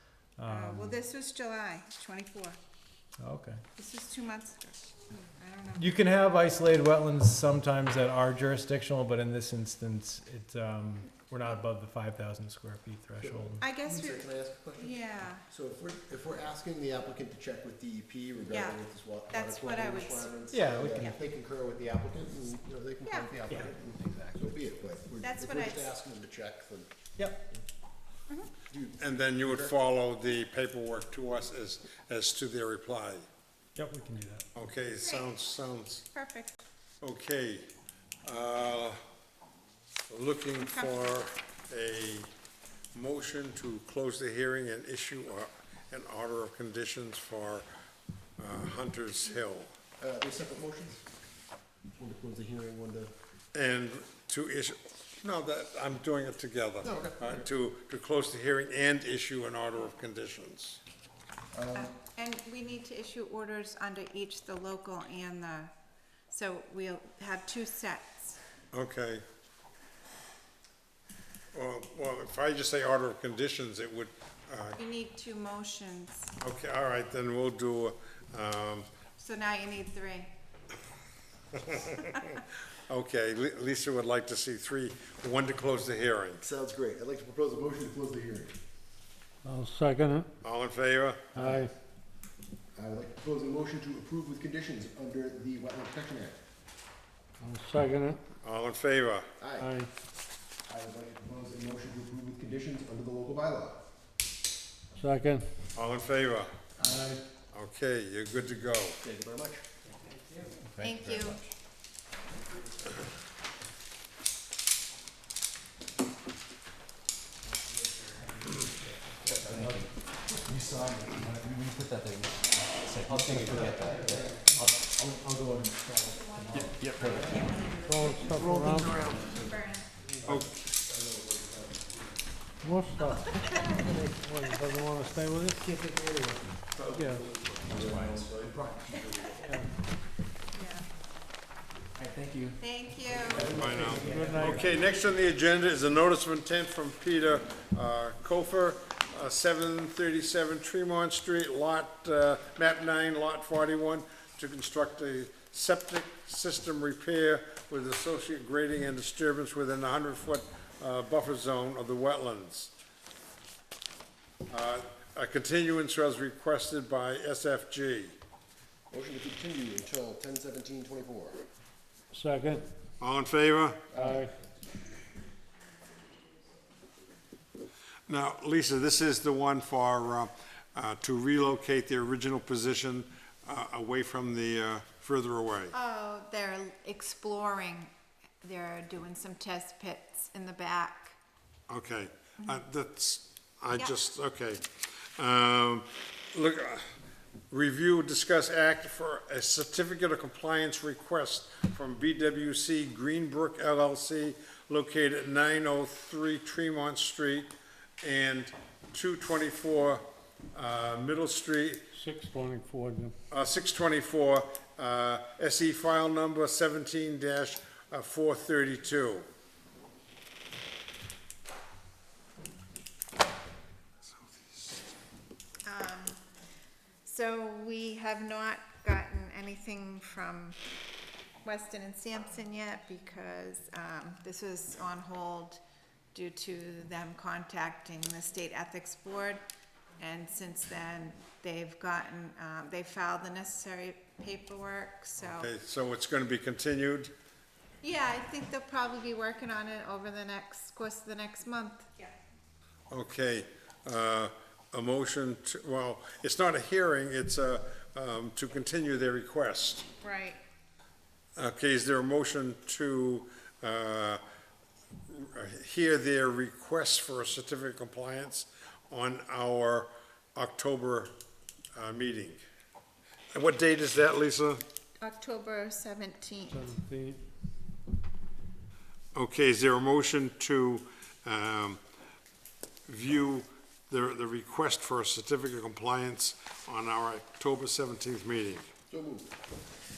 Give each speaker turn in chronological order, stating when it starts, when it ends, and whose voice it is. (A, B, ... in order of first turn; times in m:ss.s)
0:00.4-0:01.0 A
0:00.5-0:02.6 B
0:03.2-0:03.6 A
0:03.8-0:05.9 B
0:05.8-0:13.6 A
0:13.2-0:26.9 C
0:13.6-0:15.4 B
0:18.5-0:21.1 B
0:20.5-0:21.2 A
0:23.0-0:23.3 B
0:23.5-0:24.4 A
0:25.2-0:25.9 B
0:27.2-0:27.5 A
0:28.7-0:29.7 C
0:29.0-0:33.2 D
0:33.8-0:34.4 A
0:34.5-0:36.0 D
0:35.0-0:35.3 B
0:36.1-0:36.6 B
0:37.0-0:37.7 D
0:38.2-0:39.0 D
0:40.1-0:42.3 D
0:40.6-0:41.2 B
0:42.9-0:47.7 D
0:48.4-0:49.7 D
0:50.0-0:51.0 C
0:52.0-0:53.1 C
0:53.5-1:00.8 D
0:56.8-0:57.4 C
1:01.5-1:01.9 C
1:01.7-1:05.7 B
1:06.3-1:08.4 B
1:08.7-1:09.2 D
1:11.5-1:14.8 D
1:14.8-1:16.3 B
1:16.4-1:18.9 D
1:19.2-1:20.3 B
1:21.5-1:22.2 D
1:22.9-1:26.4 D
1:26.4-1:28.6 C
1:29.4-1:30.3 E
1:30.4-1:31.3 D
1:31.3-1:31.7 E
1:31.3-1:31.7 C
1:32.7-1:36.4 C
1:37.4-1:38.2 E
1:38.4-1:39.3 D
1:39.4-1:39.7 C
1:39.6-1:39.9 E
1:40.6-1:43.8 C
1:45.0-1:45.5 E
1:45.7-1:46.5 D
1:47.5-1:49.0 D
1:49.0-1:49.6 C
1:50.2-1:51.4 A
1:50.8-1:51.4 B
1:57.9-1:59.9 A
1:59.3-1:59.9 F
2:00.4-2:01.7 C
2:01.7-2:04.9 F
2:02.8-2:04.6 C
2:03.1-2:07.4 A
2:06.0-2:09.9 B
2:06.5-2:07.5 C
2:07.8-2:09.1 E
2:08.4-2:09.5 C
2:10.0-2:12.0 C
2:10.2-2:10.6 D
2:12.6-2:15.7 E
2:13.0-2:14.0 B
2:15.7-2:16.4 A
2:16.8-2:19.3 C
2:16.9-2:17.3 E
2:17.8-2:18.0 F
2:19.3-2:19.7 E
2:20.5-2:20.8 B
2:22.6-2:23.6 B
2:23.3-2:24.6 A
2:23.4-2:42.7 D
2:23.6-2:23.9 C
2:24.0-2:24.6 E
2:44.5-2:48.2 D
2:48.9-2:51.4 C
2:52.1-2:52.6 E
2:53.0-2:53.9 D
2:53.9-2:54.4 C
2:54.0-2:54.3 E
2:58.1-3:05.7 D
3:05.7-3:07.9 B
3:08.4-3:11.2 B
3:11.7-3:16.9 D
3:17.5-3:31.8 D
3:31.9-3:33.1 E
3:33.3-3:39.3 D
3:44.0-3:44.8 D
3:45.6-3:46.2 B
3:47.0-3:50.6 B
3:51.4-3:55.6 B
3:56.1-3:59.4 B
4:00.0-4:05.5 B
4:05.3-4:07.1 D
4:07.8-4:12.1 B
4:12.9-4:19.9 D
4:20.0-4:20.4 B
4:21.4-4:24.2 D
4:25.1-4:31.1 D
4:31.7-4:32.4 D
4:33.3-4:34.6 D
4:35.0-4:36.6 B
4:36.5-4:37.2 E
4:39.1-4:41.8 D
4:42.9-4:48.7 D
4:48.9-4:49.3 C